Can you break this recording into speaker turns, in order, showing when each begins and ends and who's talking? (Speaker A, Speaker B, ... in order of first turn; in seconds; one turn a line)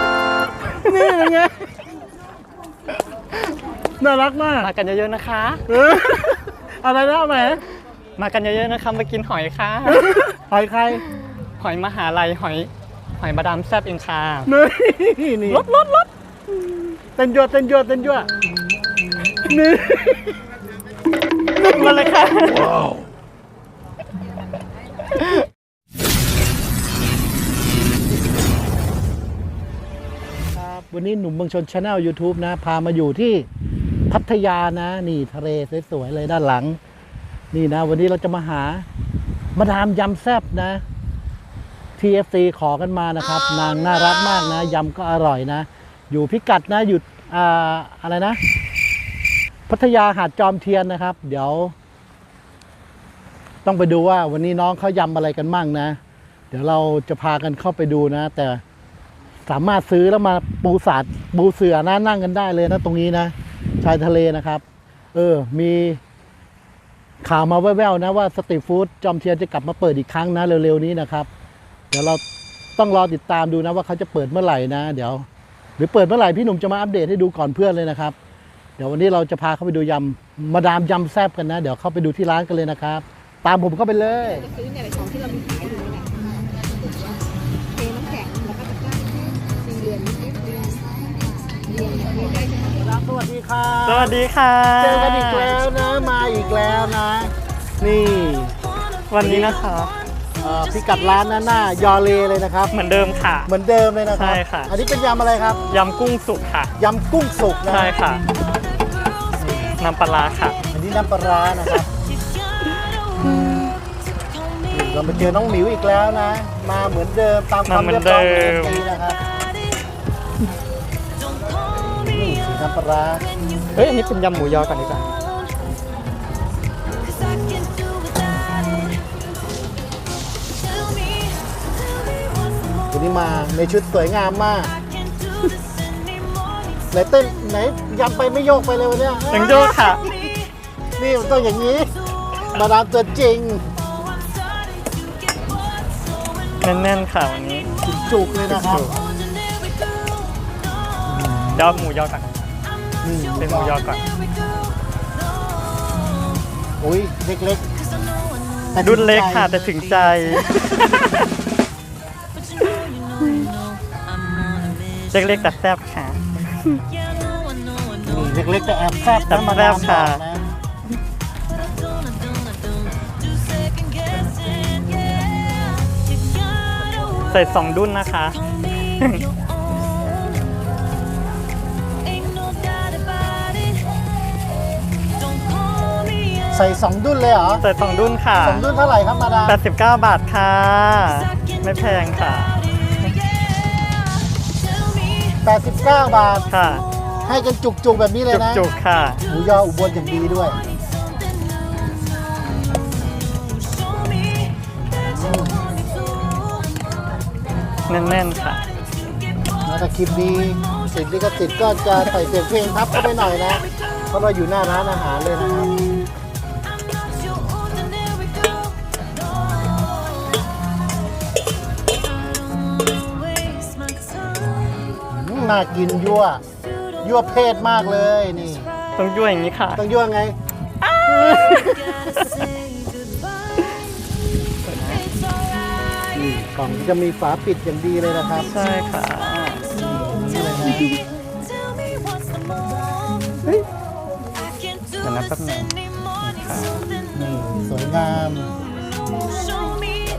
Speaker A: 0.7-1.7
Speaker A: 4.0-4.7
Speaker B: 4.6-5.6
Speaker A: 5.7-7.6
Speaker B: 8.2-10.2
Speaker A: 9.9-11.0
Speaker B: 11.6-14.5
Speaker A: 14.4-15.7
Speaker B: 15.5-16.1
Speaker A: 17.1-18.3
Speaker A: 19.4-20.3
Speaker B: 21.5-22.9
Speaker A: 30.5-33.5
Speaker A: 34.1-36.8
Speaker A: 37.5-38.9
Speaker A: 39.5-40.8
Speaker A: 42.0-48.4
Speaker A: 49.7-51.7
Speaker A: 53.6-56.0
Speaker A: 56.5-58.6
Speaker A: 59.5-64.6
Speaker A: 65.1-66.0
Speaker A: 67.2-71.3
Speaker A: 71.9-72.2
Speaker A: 72.8-75.2
Speaker A: 75.8-78.1
Speaker A: 78.8-84.5
Speaker C: 84.5-86.1
Speaker C: 87.8-90.9
Speaker C: 91.6-92.5
Speaker A: 92.7-94.2
Speaker B: 93.8-95.5
Speaker A: 94.8-98.5
Speaker B: 99.1-99.9
Speaker A: 99.2-99.6
Speaker A: 100.4-102.7
Speaker B: 102.7-103.5
Speaker A: 103.5-105.6
Speaker B: 104.1-104.7
Speaker B: 105.7-106.7
Speaker A: 106.8-107.9
Speaker B: 107.7-108.2
Speaker A: 109.4-109.7
Speaker B: 109.8-110.6
Speaker A: 110.7-111.9
Speaker A: 114.7-119.2
Speaker B: 117.7-118.8
Speaker A: 122.0-123.2
Speaker B: 123.7-125.1
Speaker A: 132.9-134.7
Speaker A: 136.9-140.2
Speaker B: 139.3-140.1
Speaker A: 141.0-141.9
Speaker A: 142.5-143.7
Speaker B: 146.6-147.7
Speaker A: 147.8-148.9
Speaker B: 148.5-148.9
Speaker A: 151.1-151.8
Speaker B: 151.5-152.3
Speaker A: 153.0-153.8
Speaker B: 153.4-154.0
Speaker A: 156.8-157.6
Speaker A: 158.7-159.5
Speaker B: 158.8-161.2
Speaker B: 162.7-163.4
Speaker B: 165.1-166.8
Speaker A: 168.0-170.5
Speaker B: 169.3-170.2
Speaker B: 177.2-178.4
Speaker B: 179.0-179.2
Speaker A: 186.5-187.6
Speaker B: 187.6-188.6
Speaker A: 188.4-189.6
Speaker B: 189.4-192.6
Speaker A: 195.4-196.5
Speaker B: 196.5-196.8
Speaker A: 197.2-198.7
Speaker B: 198.3-199.2
Speaker A: 199.3-200.6
Speaker A: 205.0-205.7
Speaker B: 207.9-208.6
Speaker A: 209.6-215.9
Speaker A: 225.1-226.4
Speaker A: 227.0-228.7
Speaker B: 228.9-229.8
Speaker A: 229.8-230.4
Speaker B: 230.8-232.4
Speaker A: 231.3-231.7
Speaker B: 234.6-235.1
Speaker A: 236.1-238.5
Speaker B: 238.5-239.7
Speaker A: 239.7-241.0
Speaker B: 245.0-246.8
Speaker A: 247.1-248.5